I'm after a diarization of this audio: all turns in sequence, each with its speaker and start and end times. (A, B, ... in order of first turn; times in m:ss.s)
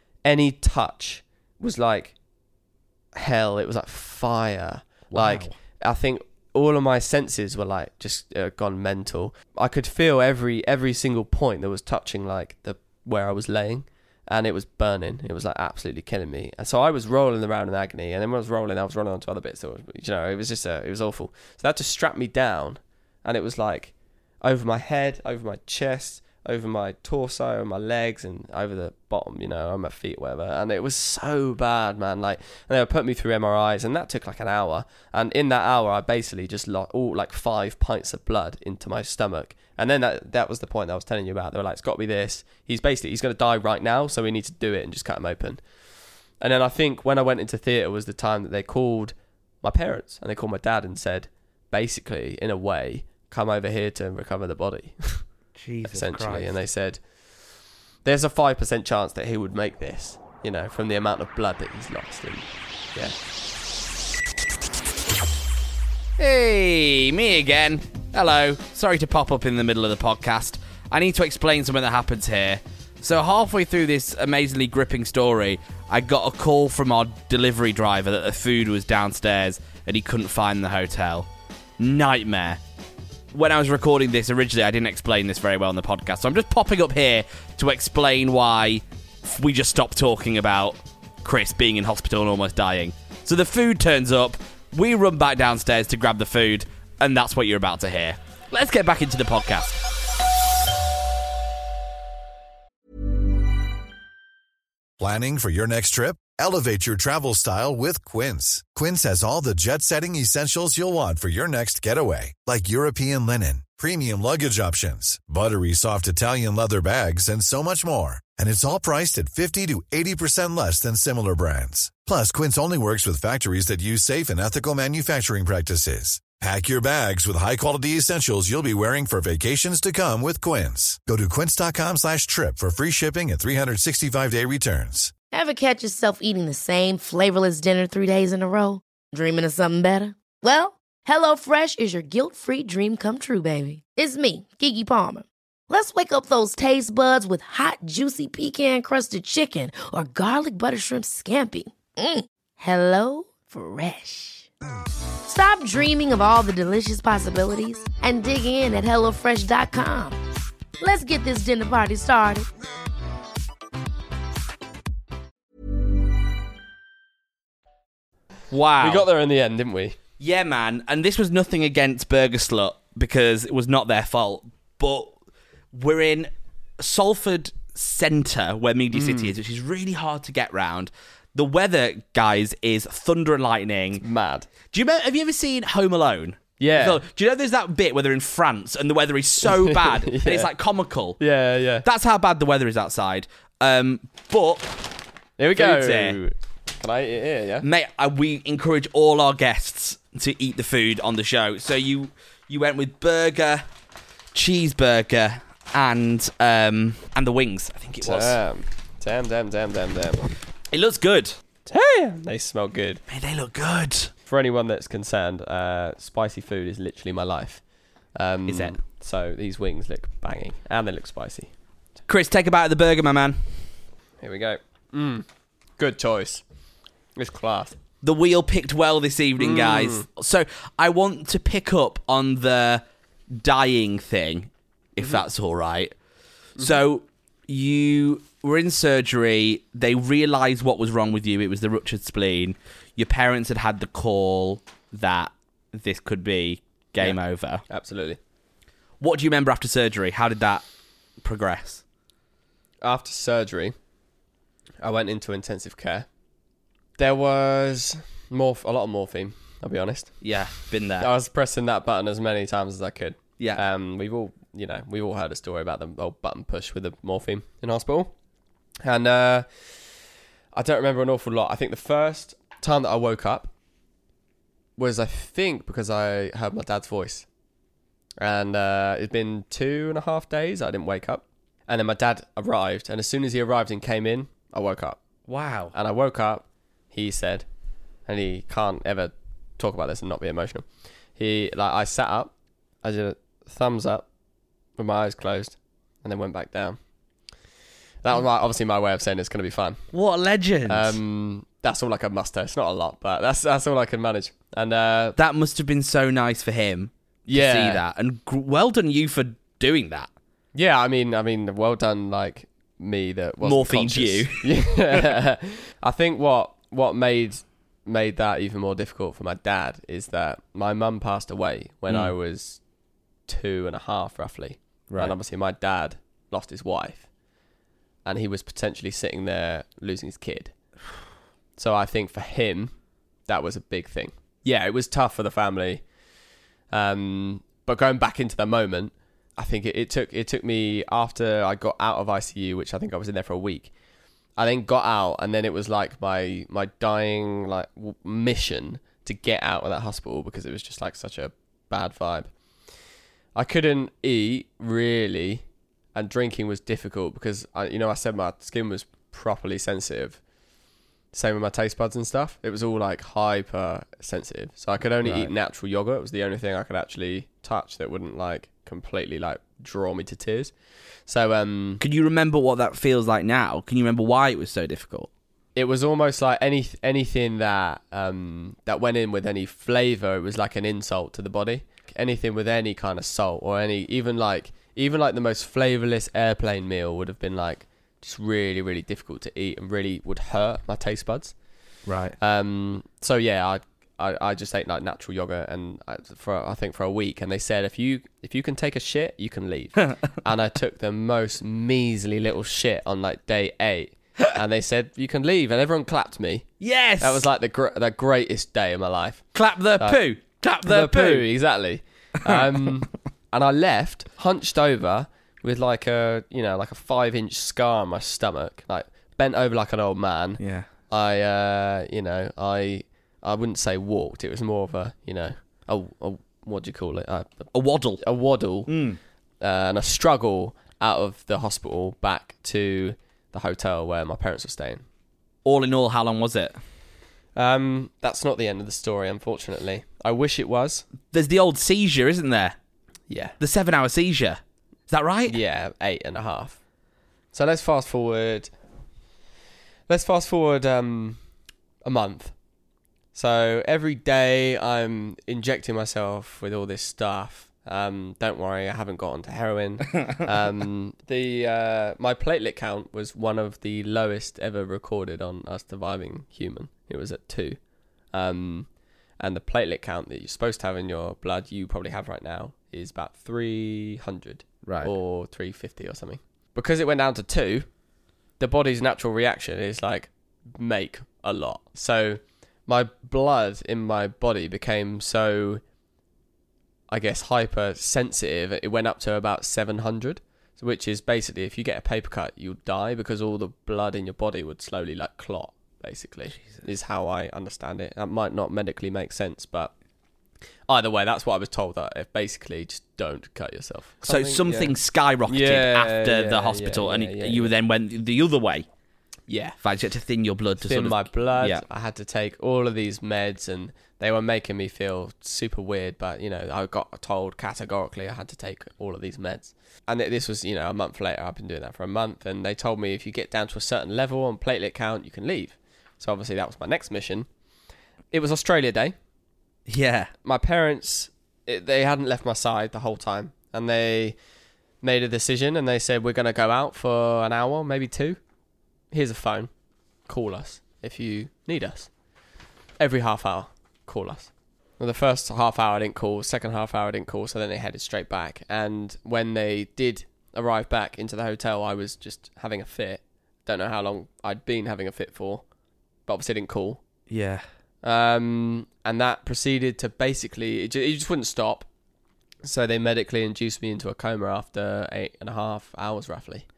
0:00.2-0:02.2 A
0:03.2-0:45.6 A
0:05.1-0:05.5 B
0:46.4-0:55.3 A
0:55.6-0:56.5 B
0:55.9-0:57.0 A
0:58.0-1:03.2 A
1:06.2-1:21.3 B
1:21.8-1:22.6 B
1:23.3-1:39.8 B
1:45.0-2:15.1 C
2:15.3-2:34.5 D
2:35.3-2:40.2 D
2:40.8-2:42.5 D
2:48.5-2:49.1 B
2:48.8-2:50.0 A
2:50.2-2:55.1 B
2:55.7-3:04.0 B
2:58.9-2:59.3 A
3:04.0-3:04.5 A
3:04.7-3:11.2 B
3:06.6-3:07.0 A
3:09.4-3:10.5 A
3:11.2-3:11.8 A
3:11.8-3:14.9 B
3:15.4-3:17.6 A
3:15.6-3:16.2 B
3:17.6-3:23.6 B
3:24.3-3:28.4 B
3:28.0-3:30.3 A
3:30.7-3:31.4 B
3:31.7-3:33.0 A
3:33.1-3:34.1 B
3:34.3-3:37.6 A
3:38.2-3:41.5 A
3:38.5-3:38.8 B
3:42.1-3:43.8 B
3:44.2-3:45.3 A
3:45.8-3:46.4 A
3:47.2-3:47.8 A
3:48.0-3:55.9 B
3:49.4-3:50.1 A
3:55.0-3:55.2 A
3:56.6-4:07.6 B
4:07.7-4:08.2 A
4:09.0-4:10.6 B
4:11.2-4:11.8 B
4:12.8-4:13.8 A
4:14.8-4:16.1 A
4:17.0-4:20.3 A
4:20.2-4:21.1 B
4:21.0-4:28.1 A
4:28.8-4:29.9 A
4:30.5-4:33.5 A
4:34.8-4:37.3 A
4:38.2-4:45.0 A
4:45.3-4:45.7 B
4:45.7-4:47.5 A
4:48.1-4:54.0 A
4:54.8-4:56.8 A
4:58.0-4:59.8 A
4:59.9-5:01.0 B
5:00.7-5:05.2 A
5:05.2-5:10.1 B
5:07.3-5:07.8 A
5:10.5-5:22.6 A
5:13.4-5:15.1 B
5:23.3-5:27.1 A
5:24.9-5:25.2 B
5:28.0-5:30.5 A
5:31.6-5:32.7 A
5:33.3-5:35.8 A
5:36.7-5:43.7 A
5:44.4-5:52.3 A
5:53.4-6:00.2 A
6:01.1-6:10.5 A
6:05.0-6:05.3 B
6:11.1-6:11.8 A
6:11.8-6:15.1 B
6:15.6-6:31.4 A
6:31.9-6:32.2 B
6:32.2-6:46.5 A
6:46.6-6:47.3 B
6:47.0-6:50.0 A
6:49.4-6:51.3 B
6:50.6-7:08.9 A
7:00.4-7:00.7 B
7:07.5-7:08.0 B
7:08.7-7:09.0 B
7:09.4-7:14.8 A
7:15.4-7:16.6 B
7:17.4-7:20.9 A
7:21.1-7:22.6 B
7:23.1-7:23.4 A
7:23.4-7:25.4 B
7:25.3-7:26.6 A
7:27.3-7:28.5 A
7:29.9-7:31.2 A
7:31.8-7:32.3 A
7:33.1-7:47.6 A
7:48.1-7:48.7 A
7:49.2-7:57.7 A
7:54.6-7:54.9 B
7:58.4-8:05.6 A
8:06.9-8:19.7 A
8:20.7-8:24.7 A
8:24.1-8:28.7 B
8:25.3-8:27.5 A
8:29.3-8:29.6 A
8:29.6-8:31.6 B
8:30.6-8:47.3 A
8:48.1-8:49.0 A
8:49.7-8:50.1 B
8:50.2-8:54.2 A
8:54.8-8:58.2 A
8:58.9-8:59.5 A
9:00.1-9:01.9 A
9:02.8-9:15.4 A
9:16.1-9:16.8 A
9:17.1-9:17.5 B
9:17.8-9:21.7 A
9:22.4-9:26.5 A